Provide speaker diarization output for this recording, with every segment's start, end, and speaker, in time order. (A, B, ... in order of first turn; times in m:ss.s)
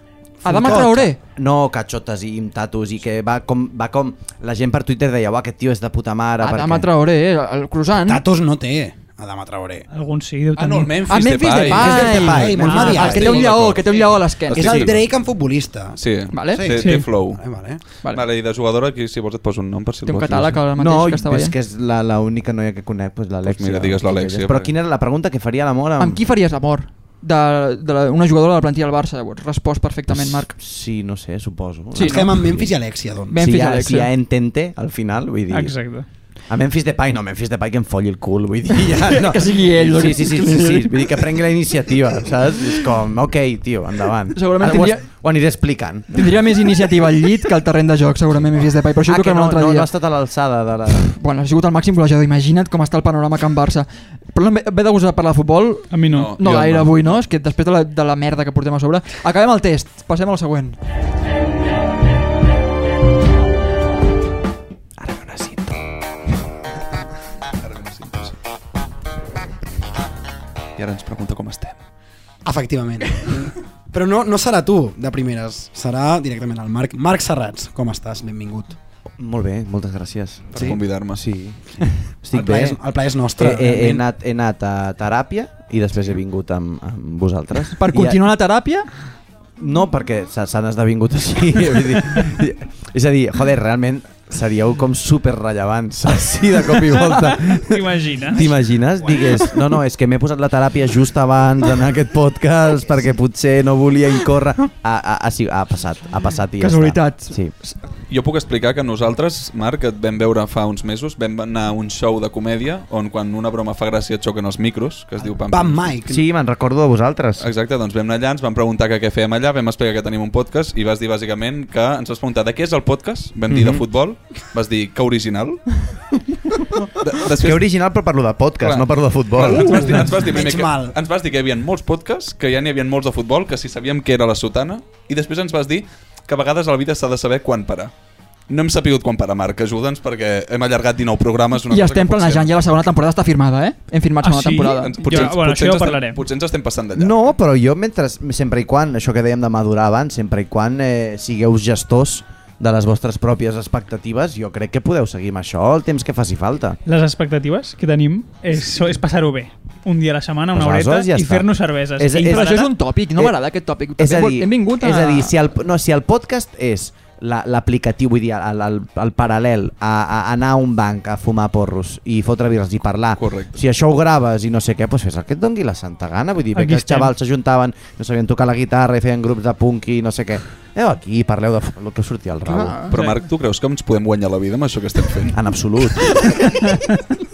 0:00.4-0:06.9 A
0:00.4-0:01.1 B
0:00.4-0:01.2 C
0:06.4-0:08.2 C
0:08.1-0:09.9 B
0:09.9-0:11.2 D
0:10.6-0:13.6 B
0:10.6-0:15.0 E
0:11.1-0:14.8 C
0:11.6-0:13.4 A
0:12.6-0:13.0 D
0:14.5-0:16.0 B
0:16.0-0:17.4 E
0:16.3-0:16.9 C
0:16.5-0:17.8 B
0:18.0-0:20.6 E
0:20.0-0:21.5 C
0:20.7-0:26.2 A
0:23.4-0:24.7 E
0:26.0-0:30.5 C
0:30.1-0:32.7 A
0:31.9-0:32.2 C
0:32.0-0:33.4 B
0:33.3-0:34.1 C
0:33.3-0:35.8 A
0:35.5-0:36.0 D
0:36.5-0:46.1 A
0:38.9-0:41.2 C
0:44.3-0:45.1 C
0:46.1-0:49.9 C
0:49.0-0:51.1 A
0:51.1-1:00.8 C
0:55.9-0:56.3 D
0:56.1-0:57.0 E
1:05.0-1:05.9 A
1:07.6-1:08.3 E
1:10.8-1:11.8 E
1:12.4-1:18.8 B
1:19.2-1:22.8 A
1:20.5-1:21.2 E
1:22.3-1:24.0 B
1:23.4-1:28.2 A
1:27.7-1:28.9 C
1:29.6-1:47.5 A
1:37.1-1:38.5 D
1:46.6-1:47.8 C
1:48.1-1:55.9 E
1:55.5-1:56.2 B
1:56.0-1:57.4 A
1:57.4-2:05.8 E
2:03.5-2:03.8 A
2:06.9-2:07.6 E
2:07.3-2:10.0 A
2:08.6-2:17.9 E
2:09.6-2:10.9 B
2:18.5-2:22.5 E
2:21.6-2:25.3 C
2:24.2-2:26.2 D
2:24.8-2:27.1 E
2:27.0-2:36.8 A
2:36.8-2:42.7 D
2:40.5-2:43.4 A
2:42.2-2:45.4 C
2:44.0-3:03.0 A
2:53.2-2:53.6 E
2:56.6-2:57.1 D
3:02.5-3:03.0 C
3:02.9-3:05.4 E
3:05.3-3:06.8 A